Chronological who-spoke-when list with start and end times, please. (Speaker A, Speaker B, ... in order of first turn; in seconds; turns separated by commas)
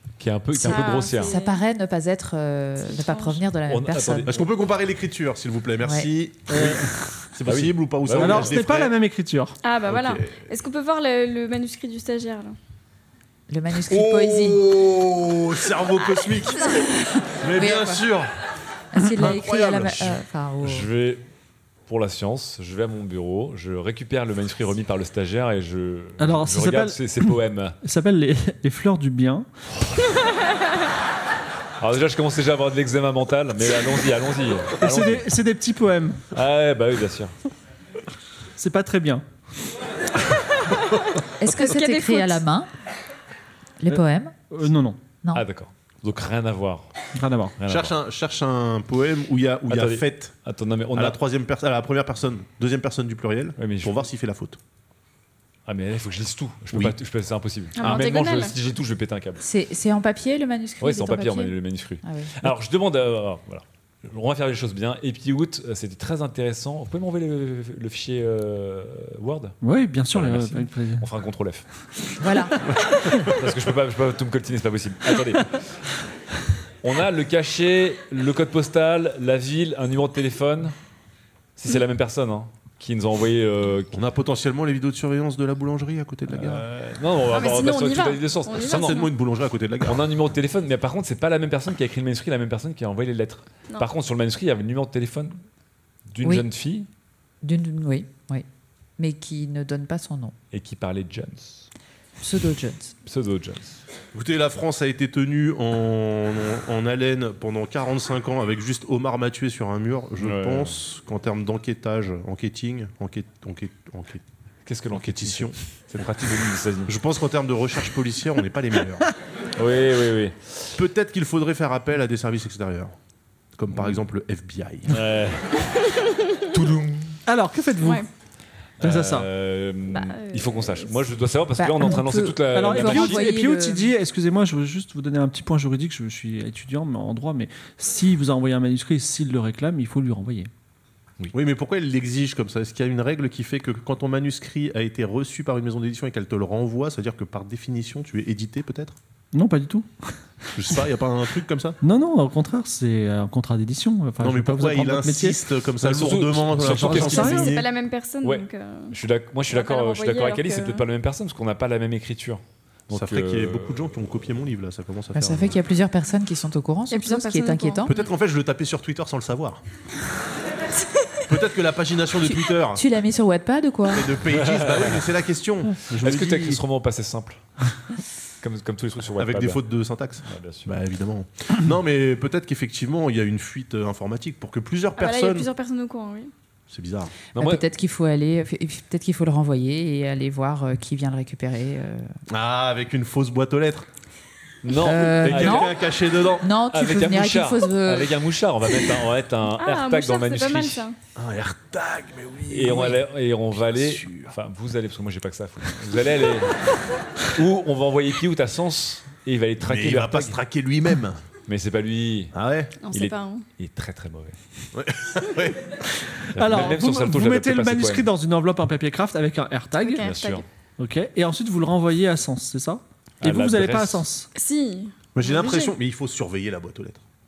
Speaker A: 0.2-1.3, Speaker B: 0.6-4.4, Speaker C: 0.6-1.6, Speaker C: 3.0-3.4, Speaker A: 3.7-4.4, Speaker D: 4.2-8.9, Speaker B: 5.8-6.1, Speaker E: 6.5-6.9, Speaker A: 7.5-8.6, Speaker E: 8.2-9.6, Speaker C: 9.6-12.6, Speaker D: 9.8-10.5, Speaker B: 13.5-14.6, Speaker D: 13.9-16.7, Speaker D: 17.4-18.3, Speaker B: 17.5-18.0, Speaker B: 18.9-20.9, Speaker D: 19.1-20.2, Speaker A: 20.6-21.2, Speaker A: 21.9-27.8, Speaker E: 26.2-29.5, Speaker A: 31.8-35.3, Speaker E: 34.8-36.2, Speaker A: 36.3-37.3, Speaker E: 38.6-39.2, Speaker B: 41.4-42.7, Speaker C: 41.5-42.4, Speaker B: 43.8-44.3, Speaker E: 44.5-45.0, Speaker A: 45.3-46.9, Speaker E: 47.1-47.5, Speaker A: 47.6-47.9, Speaker D: 47.7-50.3, Speaker A: 49.7-51.2, Speaker D: 50.9-54.6, Speaker A: 53.6-54.0, Speaker A: 55.7-59.4, Speaker C: 57.8-58.5, Speaker B: 59.4-62.3, Speaker A: 60.8-69.6, Speaker E: 69.6-71.0, Speaker A: 70.1-71.6, Speaker B: 72.2-72.7, Speaker A: 73.2-75.7, Speaker A: 76.8-80.7, Speaker A: 81.6-84.0, Speaker D: 83.9-86.6, Speaker A: 86.3-89.0, Speaker C: 87.3-89.1, Speaker D: 88.6-90.0, Speaker A: 89.8-95.3, Speaker A: 96.1-96.9, Speaker B: 97.4-98.4, Speaker B: 99.0-100.3, Speaker A: 100.5-101.7, Speaker B: 102.2-102.9, Speaker A: 103.0-103.8, Speaker D: 104.1-114.2, Speaker A: 110.2-110.8, Speaker A: 114.7-116.9, Speaker D: 114.9-115.5, Speaker D: 116.9-119.0, Speaker A: 119.5-120.8, Speaker D: 120.7-122.9, Speaker D: 123.5-125.0, Speaker A: 123.7-124.0, Speaker A: 124.9-125.7, Speaker A: 126.5-127.2, Speaker E: 127.3-128.0, Speaker C: 127.8-128.1, Speaker A: 128.8-133.3, Speaker E: 128.8-129.3, Speaker C: 129.9-130.9, Speaker B: 131.6-133.9, Speaker E: 132.5-140.5, Speaker D: 141.3-149.0, Speaker E: 149.3-150.7, Speaker D: 150.5-151.8, Speaker E: 151.8-155.4, Speaker D: 154.2-157.7, Speaker A: 155.8-157.6, Speaker E: 156.6-157.5, Speaker C: 156.9-158.9, Speaker A: 158.2-164.1, Speaker C: 159.5-160.8, Speaker D: 162.9-165.6, Speaker B: 165.1-167.9, Speaker C: 166.9-168.0, Speaker D: 167.8-169.6, Speaker D: 171.3-172.8, Speaker B: 172.2-174.1, Speaker D: 173.9-176.6, Speaker A: 174.3-175.0, Speaker A: 175.9-177.4, Speaker A: 178.4-179.6, Speaker D: 179.2-185.5, Speaker A: 180.2-180.8, Speaker C: 185.0-186.3, Speaker D: 186.7-187.1, Speaker A: 187.3-187.6, Speaker B: 187.3-192.1, Speaker D: 192.3-193.9, Speaker A: 194.6-195.7, Speaker B: 194.8-195.7, Speaker D: 195.2-196.5, Speaker B: 196.4-198.1, Speaker A: 196.7-200.8, Speaker C: 199.6-200.9, Speaker D: 201.2-204.3, Speaker A: 202.5-206.6, Speaker A: 207.3-210.4, Speaker D: 209.6-211.2, Speaker A: 211.5-212.3, Speaker D: 212.3-212.7, Speaker C: 212.8-213.4, Speaker A: 212.9-214.3, Speaker D: 214.7-215.7, Speaker E: 216.3-220.0, Speaker A: 216.3-218.1, Speaker C: 219.8-220.4, Speaker A: 220.0-220.4, Speaker E: 220.8-224.3, Speaker A: 223.2-224.0, Speaker C: 224.3-225.7, Speaker D: 225.1-227.0